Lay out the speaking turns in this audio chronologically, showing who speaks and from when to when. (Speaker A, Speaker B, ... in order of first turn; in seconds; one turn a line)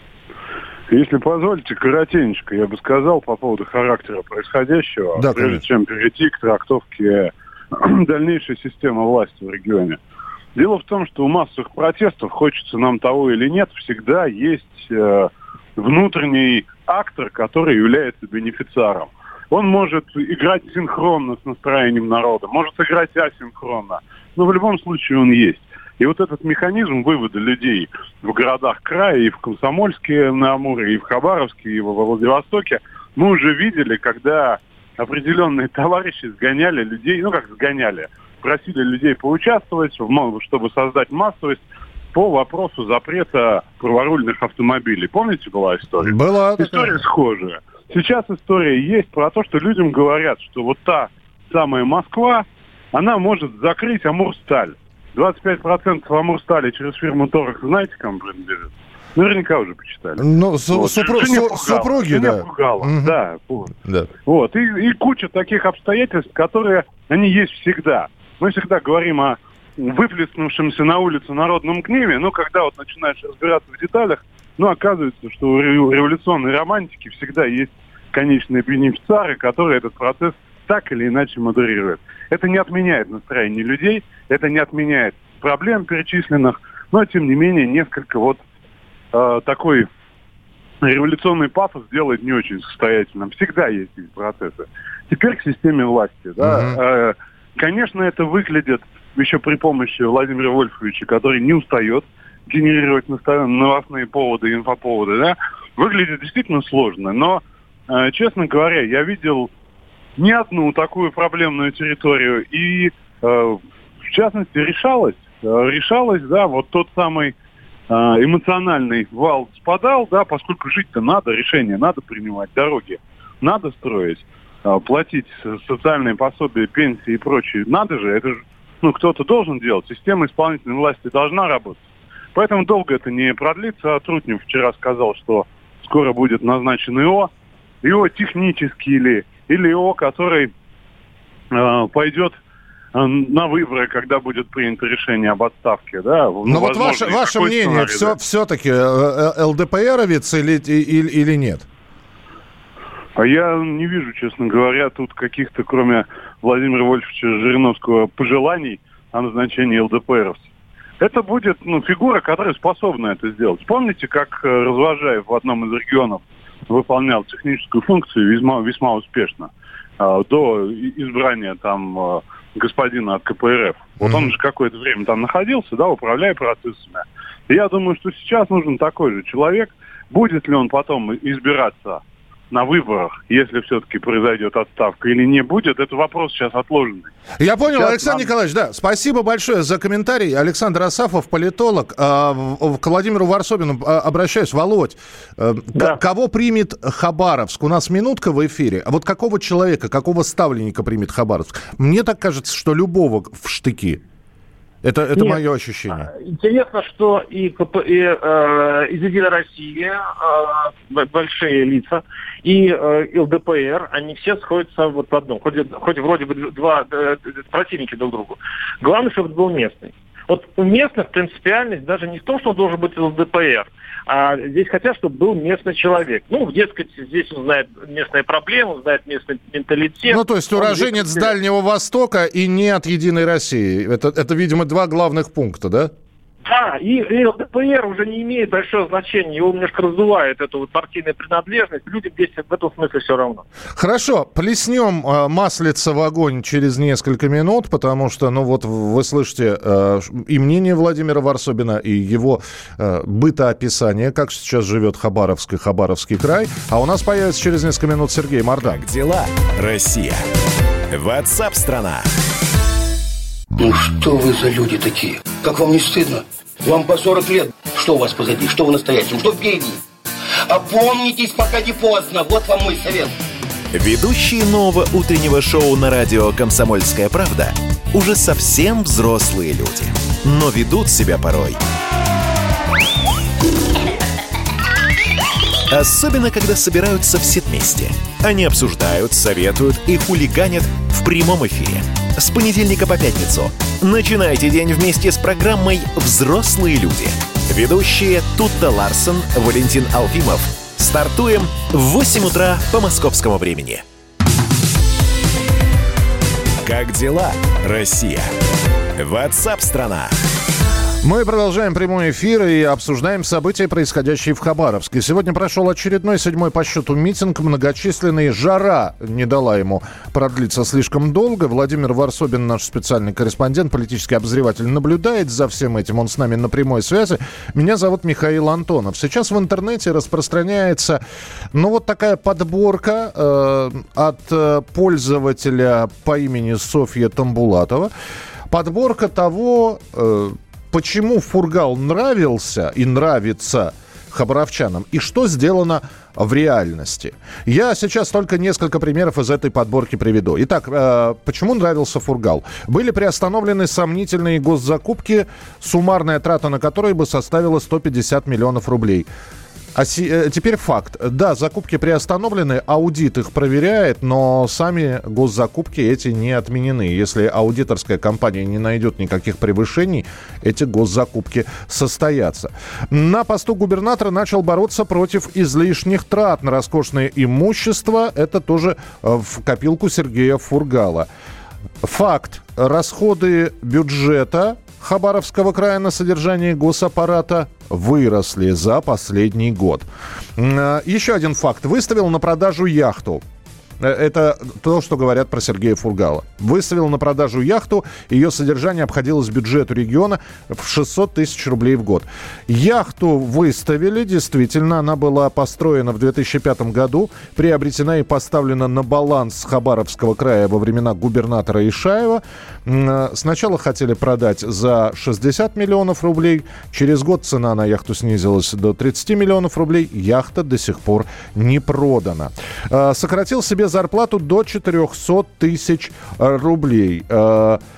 Speaker A: 0.9-10.0
Speaker B: 5.2-5.6
Speaker A: 10.5-41.6
Speaker A: 42.1-63.7
Speaker B: 46.0-47.0
Speaker B: 60.2-63.2
Speaker B: 63.8-64.1
Speaker A: 64.2-88.4
Speaker A: 89.1-89.9
Speaker A: 90.8-109.5
Speaker B: 96.4-96.8
Speaker A: 110.2-117.3
Speaker A: 117.9-131.8
Speaker A: 132.3-137.3
Speaker A: 137.8-140.5
Speaker A: 141.5-142.3
Speaker A: 142.9-148.1
Speaker B: 146.4-151.7
Speaker A: 153.2-160.4
Speaker A: 161.0-187.1
Speaker B: 174.0-174.3
Speaker B: 187.4-204.0
Speaker A: 187.7-188.2
Speaker B: 204.8-206.1
Speaker C: 206.0-231.3
Speaker B: 230.1-235.9
Speaker C: 236.4-243.4
Speaker B: 243.8-258.9
Speaker D: 258.6-260.2
Speaker D: 260.9-262.1
Speaker E: 263.6-269.8
Speaker E: 270.5-273.1
Speaker D: 273.7-281.6
Speaker D: 285.7-303.8
Speaker D: 306.6-308.3
Speaker D: 309.0-310.1
Speaker B: 311.0-331.0
Speaker B: 331.5-337.9
Speaker B: 338.5-359.1
Speaker B: 359.7-381.1
Speaker B: 381.8-393.2
Speaker B: 393.8-427.6